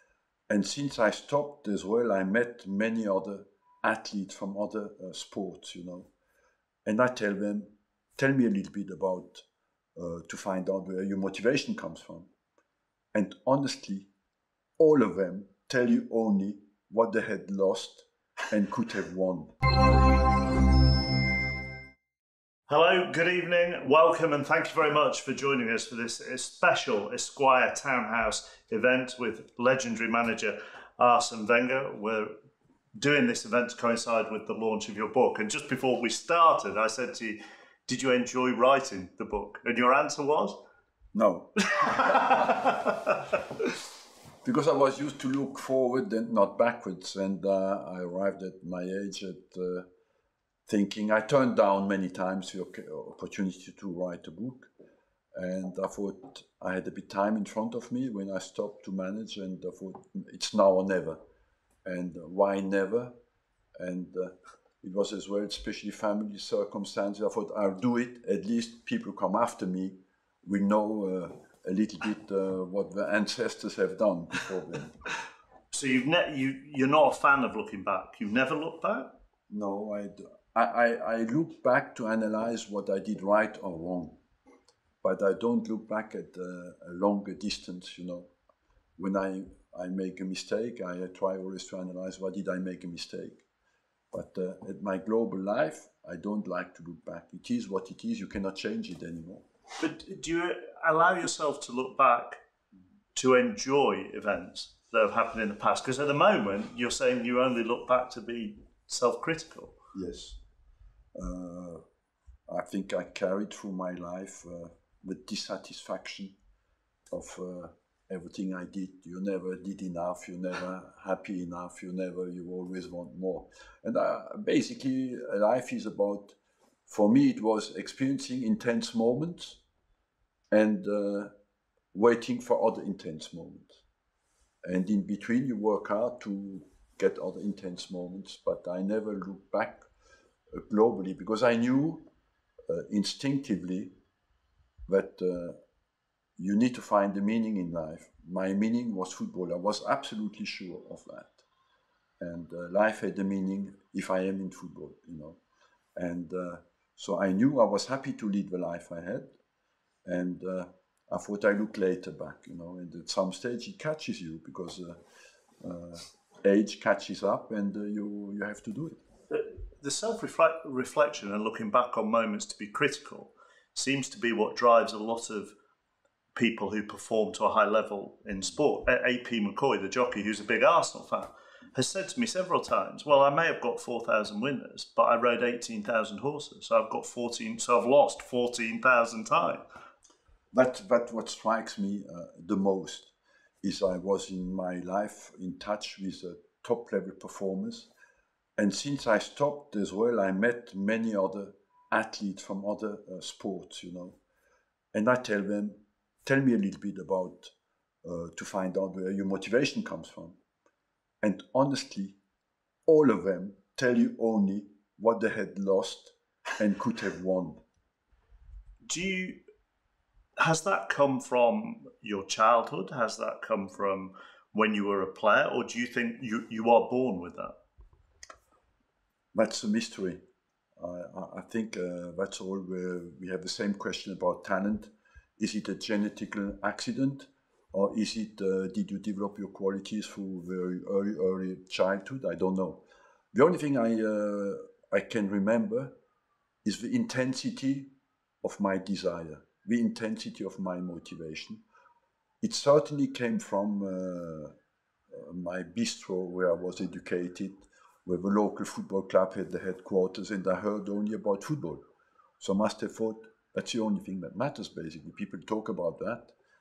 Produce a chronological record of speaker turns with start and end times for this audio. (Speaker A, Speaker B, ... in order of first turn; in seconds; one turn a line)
Speaker A: 0.5-6.1
Speaker A: 6.8-12.3
Speaker A: 13.1-14.1
Speaker A: 14.8-19.6
Speaker B: 22.7-32.3
Speaker B: 33.0-40.6
Speaker A: 41.1-42.8
Speaker B: 41.7-43.4
Speaker A: 44.4-49.9
Speaker A: 50.7-54.7
Speaker A: 55.4-61.2
Speaker A: 61.9-63.2
Speaker A: 63.8-75.0
Speaker B: 75.7-79.2
Speaker A: 79.5-84.2
Speaker A: 85.0-88.3
Speaker A: 89.0-93.4
Speaker A: 94.1-99.5
Speaker B: 99.8-102.4
Speaker B: 103.2-109.8
Speaker A: 109.9-110.4
Speaker A: 111.2-111.8
Speaker A: 112.5-116.4
Speaker A: 117.1-126.4
Speaker A: 126.9-129.6
Speaker A: 130.5-131.3
Speaker A: 131.9-133.8
Speaker A: 134.7-139.9
Speaker A: 140.5-142.1
Speaker A: 142.7-143.9
Speaker A: 144.9-145.6
Speaker A: 146.4-151.4
Speaker A: 152.2-155.4
Speaker A: 156.0-159.4
Speaker A: 160.1-165.0
Speaker A: 165.6-169.0
Speaker B: 169.3-175.5
Speaker B: 176.3-189.6
Speaker A: 190.5-197.9
Speaker A: 198.6-204.2
Speaker A: 204.9-210.4
Speaker A: 211.2-212.2
Speaker A: 212.9-217.6
Speaker B: 218.8-219.4
Speaker B: 220.4-227.5
Speaker A: 229.3-230.2
Speaker A: 230.8-245.9
Speaker A: 246.7-247.9
Speaker A: 248.4-251.6
Speaker A: 252.4-254.5
Speaker A: 255.1-261.8
Speaker A: 262.4-266.3